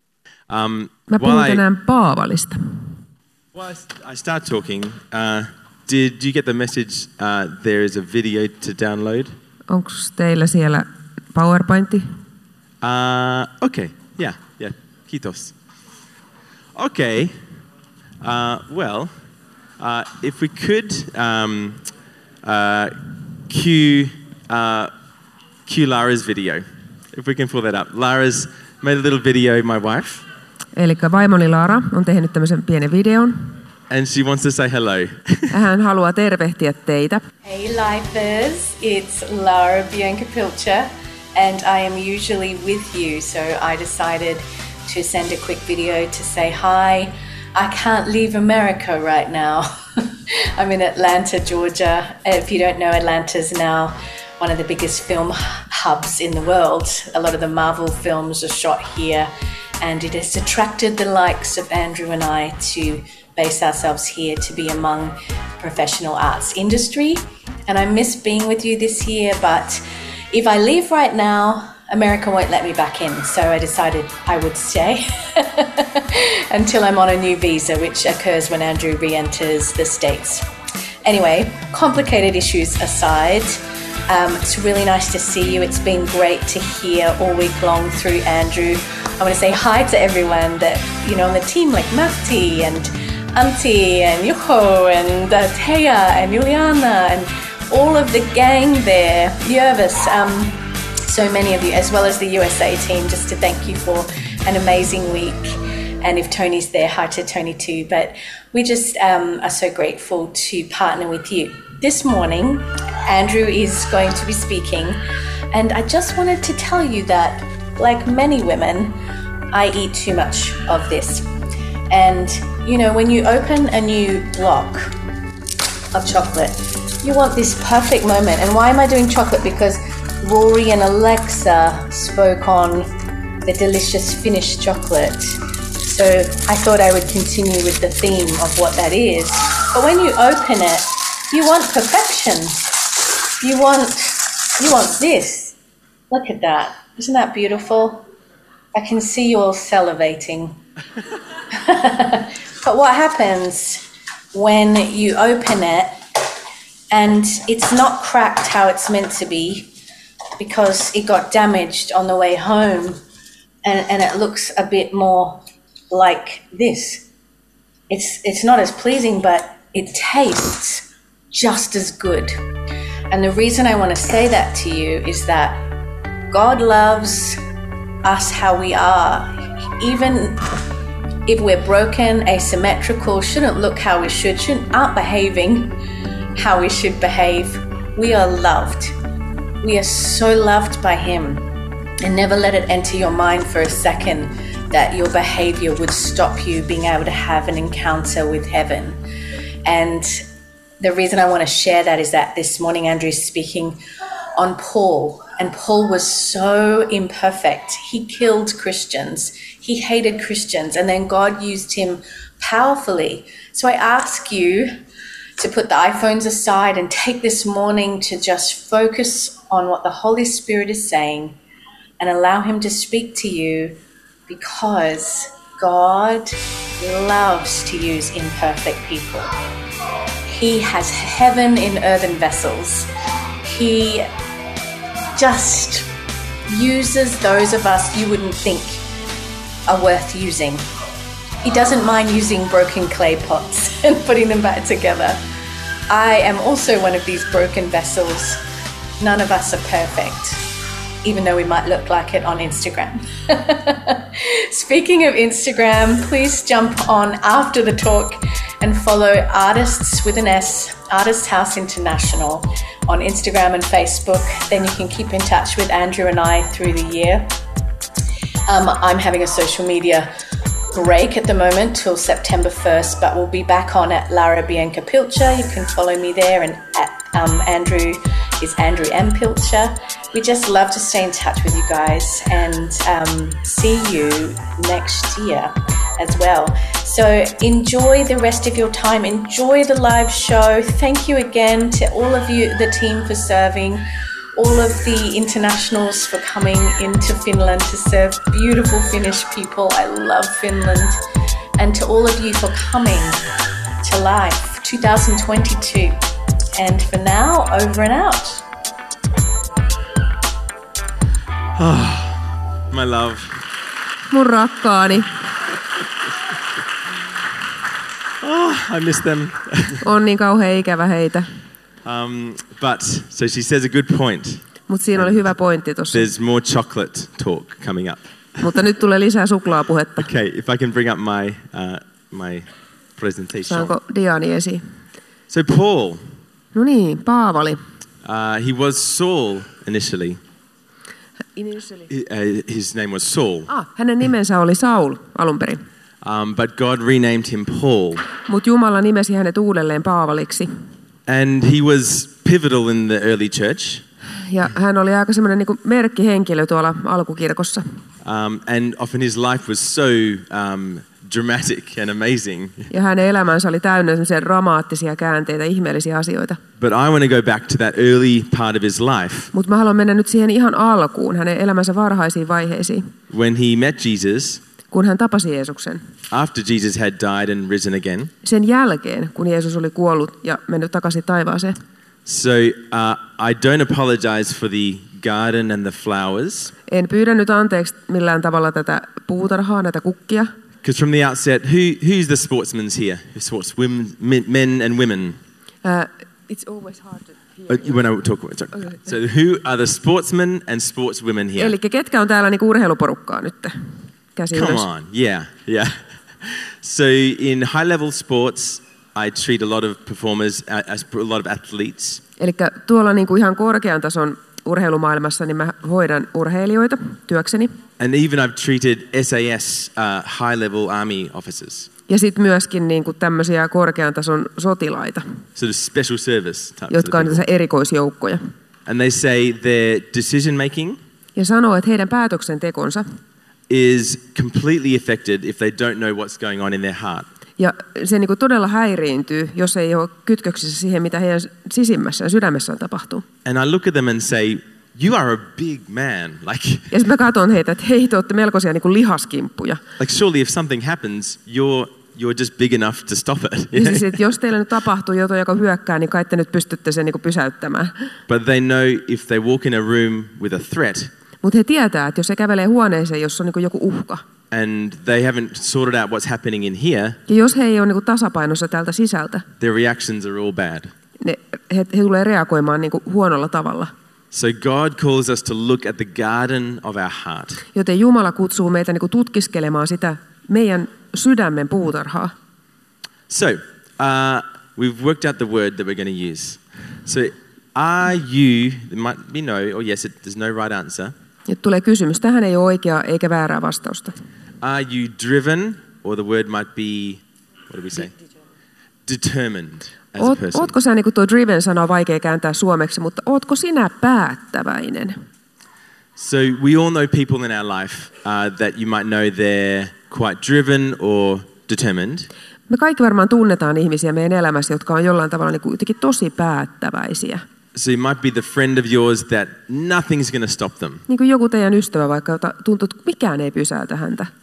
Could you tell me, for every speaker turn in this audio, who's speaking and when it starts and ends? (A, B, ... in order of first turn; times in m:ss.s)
0:00.5-0:01.6 A
0:01.1-0:03.0 B
0:03.5-0:09.3 A
0:09.7-0:12.1 B
0:12.8-0:15.5 A
0:16.7-0:17.4 A
0:18.2-0:19.1 A
0:19.8-0:21.8 A
0:22.4-0:23.0 A
0:23.5-0:24.9 A
0:25.6-0:30.2 A
0:30.7-0:33.5 B
0:33.9-0:35.5 A
0:35.5-0:37.2 B
0:37.4-0:59.3 C
0:59.8-1:20.4 C
1:21.0-1:59.0 C
1:59.5-2:01.3 C
2:01.9-2:04.9 C
2:05.9-2:12.9 C
2:13.4-2:22.9 C
2:23.4-2:25.6 C
2:26.1-2:28.1 C
2:28.7-2:30.6 C
2:31.5-2:36.0 C
2:36.9-2:39.7 C
2:40.4-2:43.0 C
2:43.6-2:47.1 C
2:47.9-2:52.3 C
2:53.1-2:55.6 C
2:56.3-2:57.4 C
2:58.0-3:00.5 C
3:01.3-3:05.8 C
3:06.4-3:08.9 C
3:09.6-3:11.5 C
3:12.0-3:19.0 C
3:19.6-3:20.2 C
3:20.8-3:23.8 C
3:24.4-3:34.7 C
3:35.4-3:41.4 C
3:42.0-3:49.3 C
3:50.2-3:52.9 C
3:53.4-3:54.1 C
3:55.2-3:55.9 C
3:56.5-3:58.8 C
3:59.7-4:00.6 C
4:01.4-4:05.2 C
4:05.9-4:08.4 C
4:09.0-4:10.4 C
4:11.0-4:27.4 C
4:28.5-4:30.1 C
4:30.7-5:01.0 C
5:01.6-5:03.2 C
5:03.8-5:06.0 C
5:06.6-5:08.4 C
5:11.6-5:13.4 A
5:14.1-5:15.1 B
5:18.2-5:19.8 A
5:19.8-5:21.3 B
5:21.8-5:25.3 A
5:24.7-5:26.1 B
5:25.9-5:28.4 A
5:28.4-5:30.1 B
5:30.0-5:32.4 A
5:33.0-5:33.7 A
5:33.5-5:34.6 B
5:35.3-5:36.0 A
5:36.5-5:37.6 B
5:38.0-5:40.2 A
5:41.4-5:41.9 B
5:41.9-5:43.5 A
5:43.5-5:45.6 B
5:46.0-5:48.0 A
5:48.2-5:50.5 B
5:51.1-5:53.8 A
5:54.2-5:57.6 B
5:58.0-6:02.7 A
6:02.7-6:06.4 B
6:06.6-6:09.3 A
6:09.3-6:12.9 B
6:13.1-6:14.4 A
6:14.7-6:15.8 B
6:16.1-6:18.1 A
6:18.2-6:21.6 B
6:22.0-6:26.5 A
6:26.7-6:30.3 B
6:30.6-6:35.2 A
6:35.6-6:37.8 B
6:37.5-6:41.5 A
6:41.4-6:43.5 B
6:44.2-6:44.6 B
6:44.3-6:52.0 A
6:52.2-6:57.5 B
6:57.8-7:01.7 A
7:01.9-7:05.0 B
7:05.4-7:07.2 A
7:06.7-7:08.2 B
7:08.6-7:10.8 A
7:11.1-7:12.8 B
7:13.5-7:17.1 A
7:17.4-7:23.0 B
7:23.2-7:26.7 A
7:26.7-7:29.6 B
7:29.8-7:33.9 A
7:33.5-7:37.7 B
7:38.1-7:40.9 A
7:41.2-7:44.0 B
7:44.3-7:47.0 A
7:47.1-7:49.2 B
7:49.4-7:50.7 A
7:51.0-7:53.7 B
7:54.1-7:57.4 A
7:57.5-8:02.1 B
8:03.1-8:10.9 A
8:11.3-8:13.9 B
8:14.4-8:17.9 A
8:18.8-8:20.5 A
8:20.0-8:25.0 B
8:26.0-8:32.1 A
8:32.5-8:37.2 B
8:37.5-8:40.8 A
8:40.9-8:44.1 B